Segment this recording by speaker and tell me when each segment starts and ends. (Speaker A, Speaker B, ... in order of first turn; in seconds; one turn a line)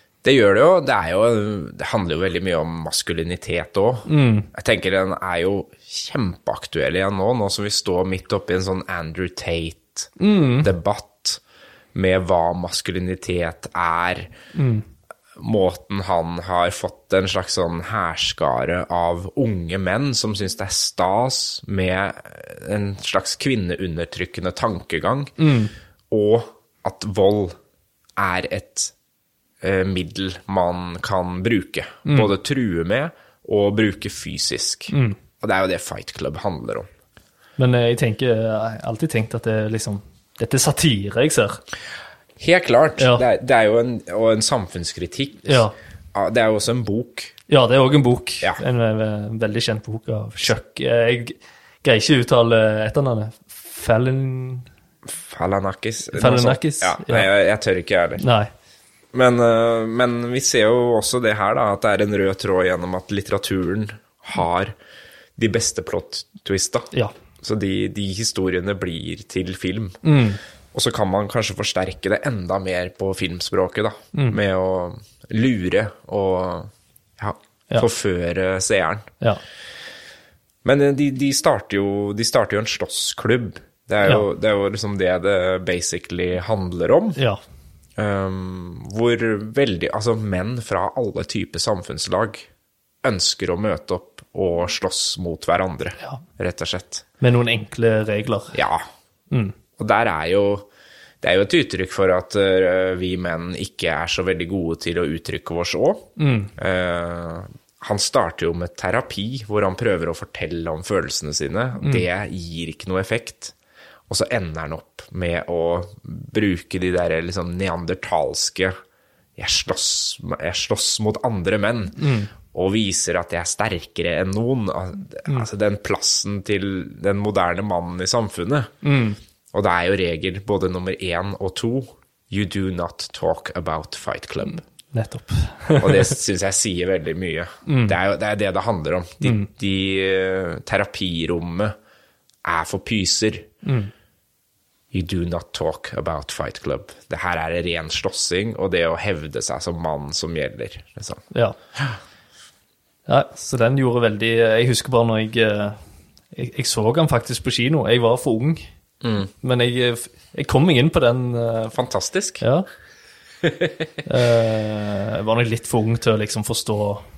Speaker A: 0.2-10.1
Speaker B: 4.0-4.5
Speaker B: 10.2-10.7
Speaker A: 10.6-11.4
Speaker A: 11.9-14.3
Speaker B: 14.5-14.8
Speaker A: 15.4-25.3
Speaker B: 25.4-25.7
Speaker A: 26.1-27.5
Speaker A: 28.2-28.9
Speaker A: 29.6-36.9
Speaker B: 34.9-35.2
Speaker B: 37.6-41.6
Speaker A: 42.4-47.3
Speaker B: 43.0-43.2
Speaker B: 45.5-45.7
Speaker B: 47.5-54.7
Speaker A: 55.1-58.2
Speaker B: 56.1-57.3
Speaker B: 58.2-58.5
Speaker A: 59.1-64.7
Speaker A: 65.4-66.9
Speaker A: 67.4-70.0
Speaker B: 70.0-70.4
Speaker A: 70.7-79.1
Speaker A: 80.6-87.2
Speaker A: 88.0-92.5
Speaker A: 93.0-97.0
Speaker B: 97.2-98.6
Speaker A: 98.5-98.8
Speaker A: 99.8-100.7
Speaker A: 101.2-113.5
Speaker B: 106.2-106.5
Speaker A: 114.1-118.7
Speaker A: 119.4-122.0
Speaker B: 122.0-122.3
Speaker A: 122.5-128.7
Speaker B: 128.8-129.2
Speaker A: 129.5-134.6
Speaker B: 134.9-136.2
Speaker A: 135.8-141.7
Speaker B: 137.7-138.0
Speaker B: 139.2-139.5
Speaker A: 142.4-143.5
Speaker B: 143.6-143.9
Speaker A: 144.9-151.2
Speaker B: 153.1-155.8
Speaker B: 156.3-158.7
Speaker A: 159.0-159.3
Speaker B: 159.4-161.7
Speaker A: 161.7-162.4
Speaker B: 162.4-162.7
Speaker A: 163.4-163.9
Speaker B: 164.0-167.0